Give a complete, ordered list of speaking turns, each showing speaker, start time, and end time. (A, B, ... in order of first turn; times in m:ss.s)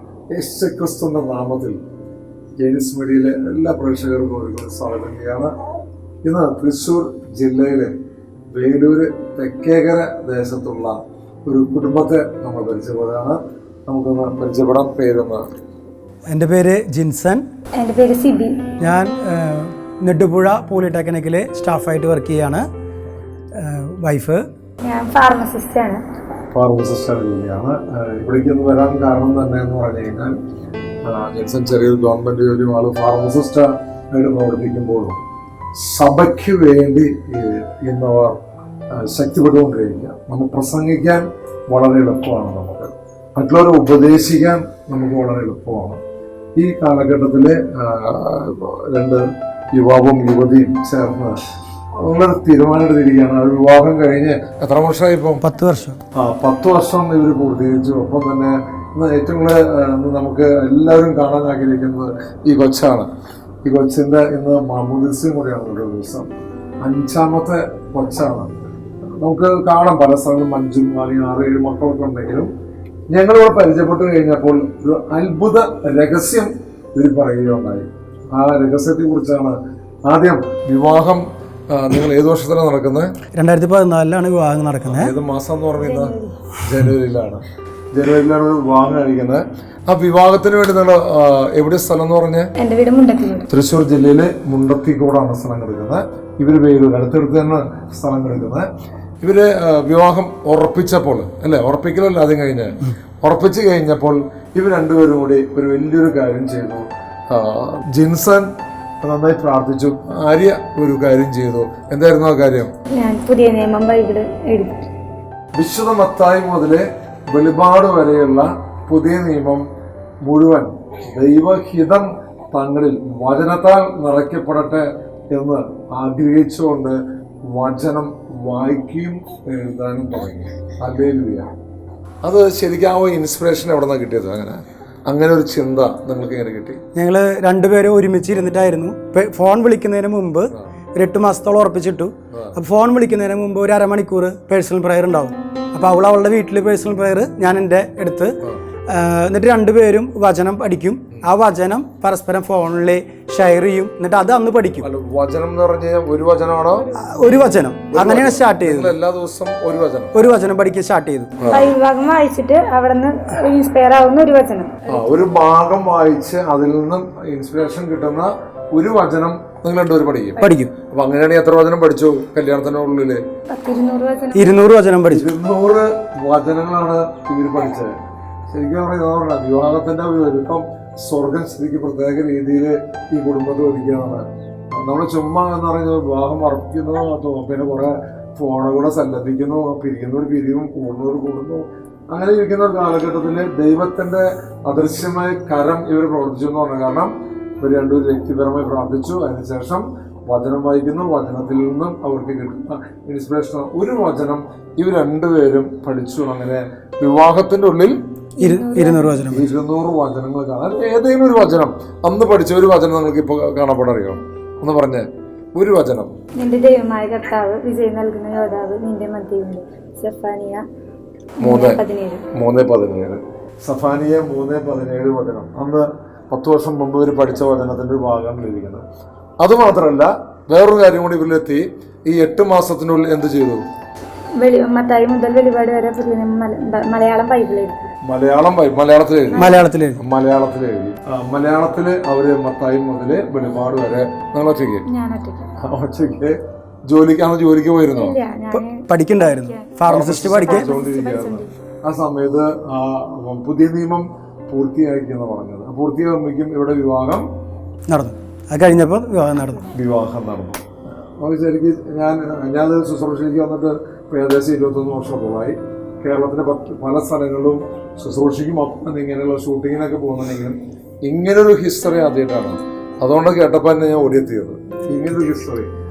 0:00.3-0:01.8 A
0:02.6-0:05.5 A
0:06.2-0:07.9 A
0:08.5-0:15.5 A
0:16.3-0:17.4 B
0:17.8-0:18.6 C
0:18.8-0:22.6 B
0:23.6-0:24.4 B
0:24.8-0:26.0 C
0:26.5-0:30.4 A
0:31.0-0:35.2 A
0:35.7-0:38.4 A
0:38.9-0:46.0 A
0:46.6-0:51.4 A
0:52.0-0:55.4 A
0:55.4-0:56.0 B
0:56.1-1:03.1 A
1:03.6-1:06.3 A
1:06.8-1:12.5 A
1:13.1-1:23.1 A
1:23.4-1:25.1 B
1:24.8-1:32.5 A
1:25.8-1:26.4 C
1:32.6-1:33.4 C
1:33.5-1:38.7 A
1:39.2-1:48.5 A
1:49.0-1:52.7 A
1:52.9-1:54.9 C
1:55.5-1:59.6 A
2:00.2-2:11.5 A
2:12.2-2:16.8 A
2:17.0-2:28.4 B
2:22.3-2:22.6 A
2:28.9-2:34.9 B
2:34.8-2:36.9 A
2:36.7-2:37.6 C
2:37.0-2:38.9 B
2:37.9-2:40.3 A
2:40.1-2:41.3 B
2:41.4-2:41.7 A
2:41.5-2:45.0 C
2:44.9-2:53.2 A
2:50.4-2:50.7 B
2:53.5-2:54.7 C
2:54.3-2:55.2 B
2:55.1-2:58.0 A
2:58.5-3:28.0 A
3:28.4-3:29.2 C
3:28.4-3:29.5 B
3:29.3-3:36.1 A
3:36.4-3:40.6 C
3:41.4-3:42.2 C
3:41.4-3:41.8 A
3:42.3-3:48.8 A
3:49.4-3:53.6 A
3:54.4-3:57.9 C
3:58.0-4:04.8 A
3:59.3-3:59.7 C
3:59.4-4:00.0 B
4:04.9-4:05.5 C
4:05.6-4:08.2 A
4:07.9-4:11.5 C
4:08.5-4:10.7 B
4:09.8-4:17.2 A
4:17.9-4:19.7 B
4:19.7-4:35.7 A